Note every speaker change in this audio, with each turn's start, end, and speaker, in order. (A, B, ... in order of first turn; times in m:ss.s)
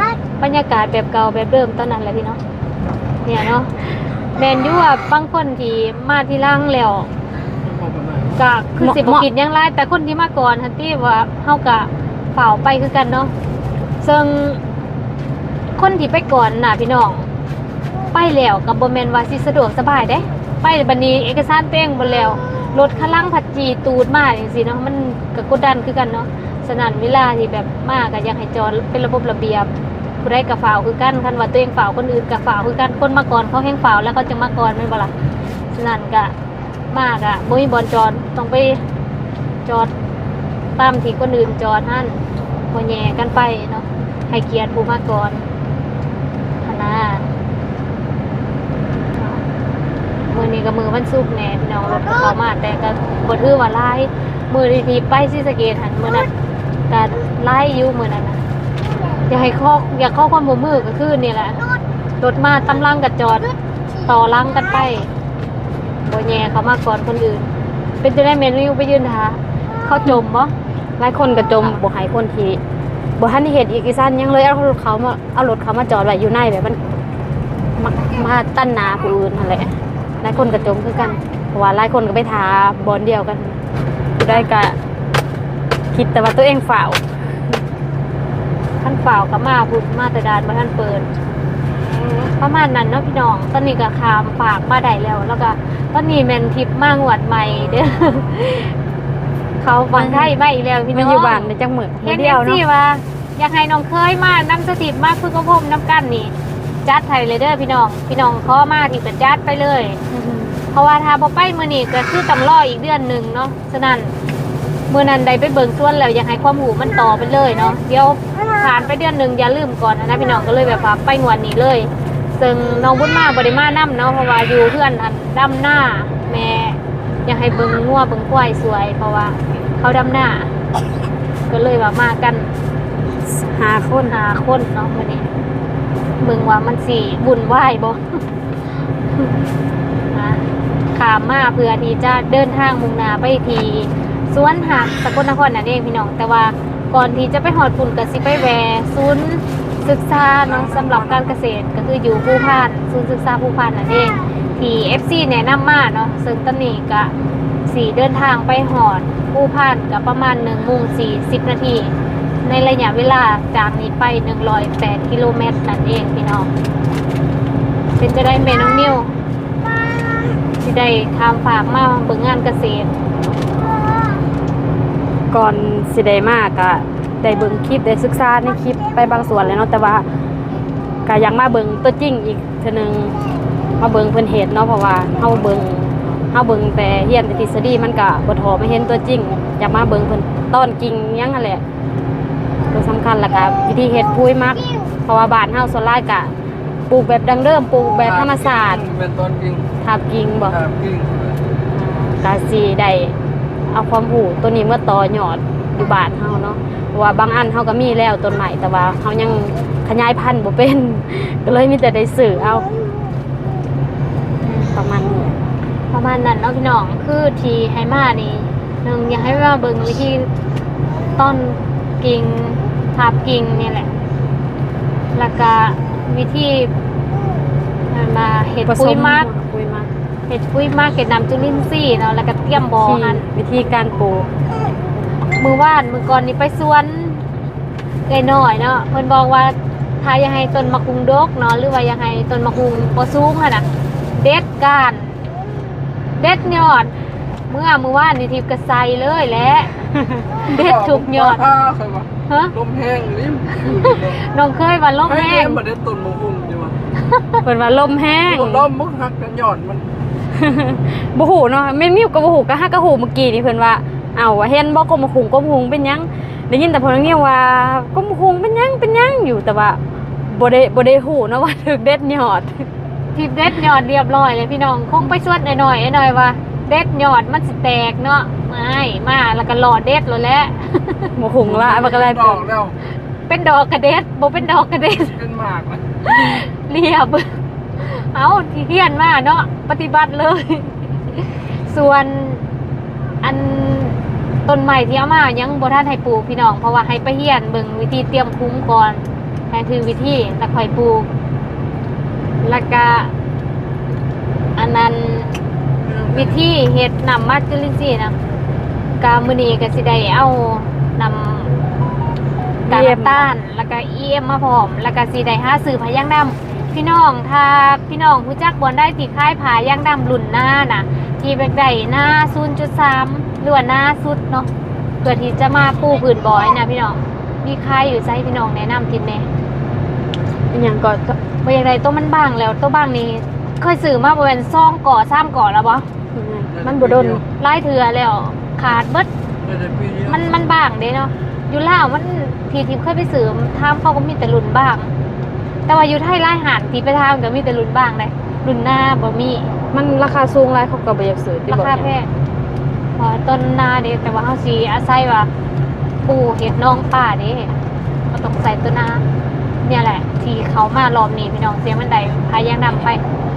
0:00.4-0:02.4 A
0:03.2-0:03.7 A
0:04.4-0:07.1 A
0:07.6-0:08.4 B
0:08.4-0:13.3 A
0:08.8-0:09.2 C
0:14.0-0:14.6 A
0:15.8-0:17.3 A
0:18.1-0:29.7 A
0:30.2-0:35.1 A
0:35.7-0:36.3 A
0:36.9-0:38.8 A
0:39.6-0:39.9 A
0:40.8-0:45.5 A
0:46.6-0:47.3 A
0:49.2-0:49.4 A
0:50.3-0:56.3 A
0:56.9-0:58.4 A
0:59.3-1:01.6 A
1:02.2-1:03.5 A
1:04.0-1:05.1 A
1:06.1-1:07.5 A
1:08.0-1:10.5 A
1:11.0-1:12.6 C
1:13.2-1:16.8 C
1:17.8-1:23.6 C
1:20.3-1:20.8 A
1:24.2-1:24.8 C
1:25.9-1:27.0 C
1:28.8-1:31.1 A
1:31.9-1:38.7 A
1:37.5-1:37.9 B
1:39.6-1:46.3 A
1:39.9-1:40.3 C
1:40.9-1:42.6 C
1:46.8-1:50.0 A
1:50.1-1:50.6 C
1:50.7-1:54.1 A
1:54.9-2:10.5 A
2:11.5-2:12.5 A
2:13.3-2:14.1 C
2:14.1-2:15.3 A
2:16.2-2:18.0 A
2:20.1-2:20.4 A
2:21.0-2:37.1 A
2:30.4-2:31.4 B
2:37.7-2:46.5 A
2:48.0-2:49.1 A
2:50.6-2:52.9 A
2:55.3-3:00.0 C
3:01.1-3:03.2 C
3:03.8-3:11.6 C
3:05.1-3:06.3 B
3:12.7-3:16.3 C
3:16.9-3:18.9 C
3:18.0-3:19.7 B
3:19.8-3:20.6 C
3:20.4-3:21.4 B
3:21.7-3:23.2 C
3:23.7-3:32.7 C
3:34.4-3:34.7 A
3:34.6-3:35.4 C
3:35.9-3:40.3 A
3:41.2-3:43.9 A
3:45.2-3:46.7 A
3:47.9-3:49.3 A
3:48.7-3:49.9 C
3:50.3-3:53.3 A
3:52.7-3:54.3 C
3:55.4-3:57.2 A
3:58.1-4:05.2 A
4:06.2-4:06.9 A
4:07.5-4:09.7 A
4:10.5-4:14.2 B
4:10.5-4:11.5 A
4:13.8-4:15.6 A
4:15.0-4:16.8 B
4:17.0-4:17.4 A
4:17.4-4:18.7 C
4:18.2-4:19.8 B
4:20.4-4:32.7 C
4:33.2-4:41.1 A
4:41.2-4:42.5 C
4:41.4-4:42.8 B
4:43.3-4:45.2 A
4:45.0-4:46.4 B
4:46.0-4:52.4 A
4:53.2-5:01.1 A
5:02.4-5:03.1 A
5:04.6-5:05.4 A
5:05.8-5:06.5 B
5:06.1-5:08.2 A
5:09.0-5:11.5 A
5:12.7-5:13.3 C
5:12.7-5:24.5 A
5:25.0-5:29.3 A
5:30.5-5:31.2 C
5:31.4-5:35.9 A
5:36.1-5:37.2 C
5:36.5-5:37.2 B
5:37.2-5:39.1 A
5:39.4-5:40.4 B
5:40.1-5:44.9 A
5:45.7-5:49.5 A
5:49.7-5:51.9 C
5:51.5-5:52.1 A
5:53.0-5:55.3 A
5:56.0-5:57.5 A
5:58.1-5:59.0 A
5:59.6-6:03.0 A